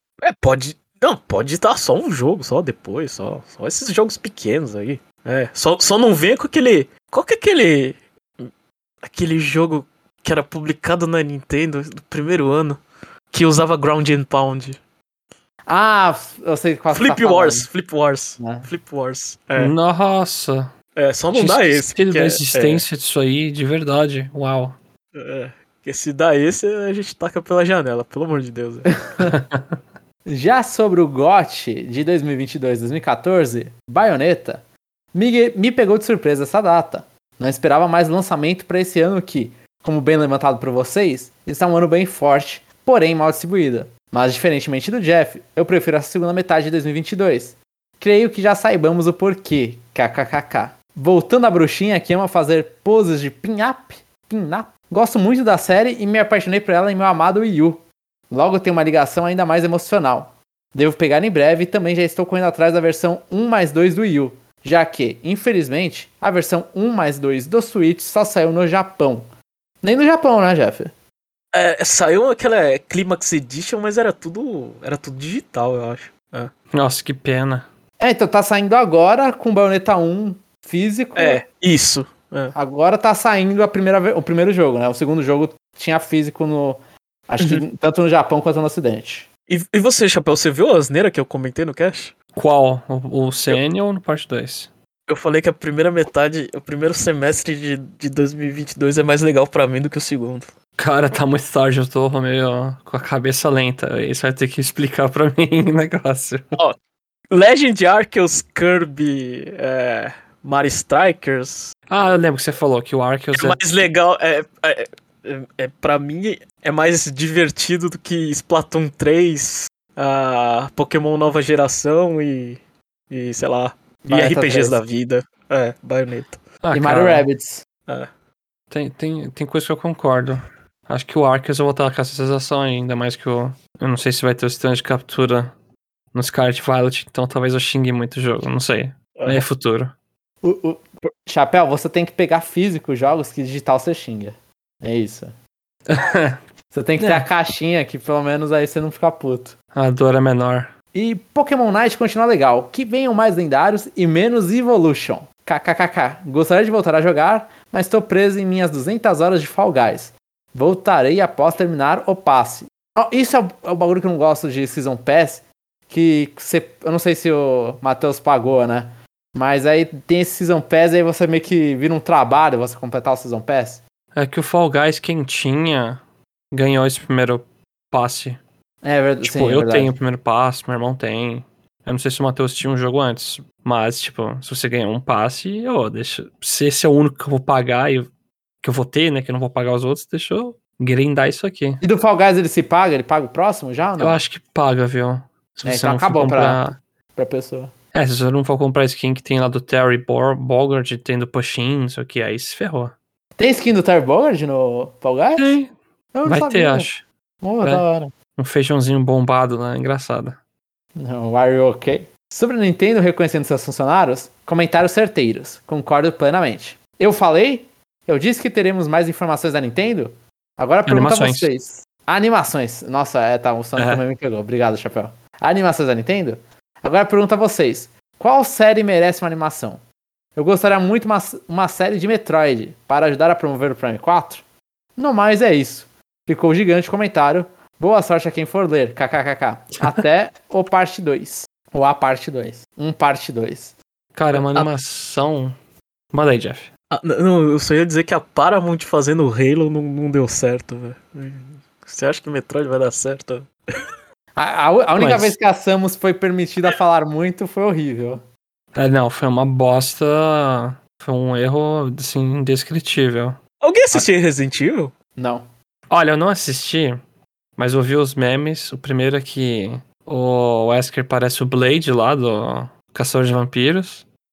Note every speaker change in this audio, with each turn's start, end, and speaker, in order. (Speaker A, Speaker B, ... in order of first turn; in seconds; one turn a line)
Speaker A: 0.2-8.5
Speaker A: 9.0-12.8
Speaker A: 13.3-14.8
Speaker B: 15.7-17.7
Speaker A: 16.9-19.7
Speaker B: 18.4-18.7
Speaker C: 19.6-20.7
Speaker A: 20.9-22.8
Speaker C: 21.3-24.8
Speaker A: 25.1-28.9
Speaker C: 29.2-29.6
Speaker B: 30.2-34.6
Speaker B: 35.1-69.3
Speaker B: 69.8-70.9
Speaker A: 71.5-76.5
Speaker C: 76.7-77.7
Speaker B: 78.0-81.4
Speaker A: 81.2-82.5
Speaker B: 82.5-89.3
Speaker A: 89.5-92.1
Speaker C: 92.3-94.7
Speaker A: 95.1-100.5
Speaker C: 100.8-106.6
Speaker A: 107.3-111.7
Speaker C: 111.9-113.7
Speaker A: 113.3-126.4
Speaker B: 124.0-124.8
Speaker C: 126.6-127.2
Speaker B: 126.7-127.6
Speaker C: 128.7-135.5
Speaker C: 136.1-139.9
Speaker A: 139.2-139.4
Speaker B: 140.4-145.3
Speaker C: 145.9-146.4
Speaker B: 146.7-149.5
Speaker C: 147.0-147.2
Speaker C: 149.7-150.7
Speaker B: 150.9-173.8
Speaker C: 174.1-178.4
Speaker B: 178.8-179.9
Speaker C: 179.2-188.1
Speaker C: 188.6-191.8
Speaker B: 191.8-194.2
Speaker C: 194.0-196.8
Speaker B: 195.7-196.6
Speaker B: 197.2-197.7
Speaker C: 197.9-202.9
Speaker B: 203.4-205.6
Speaker C: 205.4-205.7
Speaker B: 206.1-206.9
Speaker C: 206.2-207.0
Speaker B: 207.4-208.1
Speaker C: 208.4-210.4
Speaker B: 210.9-229.8
Speaker C: 220.8-221.5
Speaker C: 223.8-224.0
Speaker B: 230.3-234.4
Speaker B: 235.0-243.8
Speaker C: 244.1-245.6
Speaker A: 244.3-244.7
Speaker C: 246.1-246.7
Speaker A: 246.9-253.5
Speaker B: 254.3-258.2
Speaker A: 255.0-255.3
Speaker C: 258.7-263.4
Speaker A: 263.6-264.9
Speaker B: 265.1-265.4
Speaker C: 265.9-267.0
Speaker C: 267.6-274.1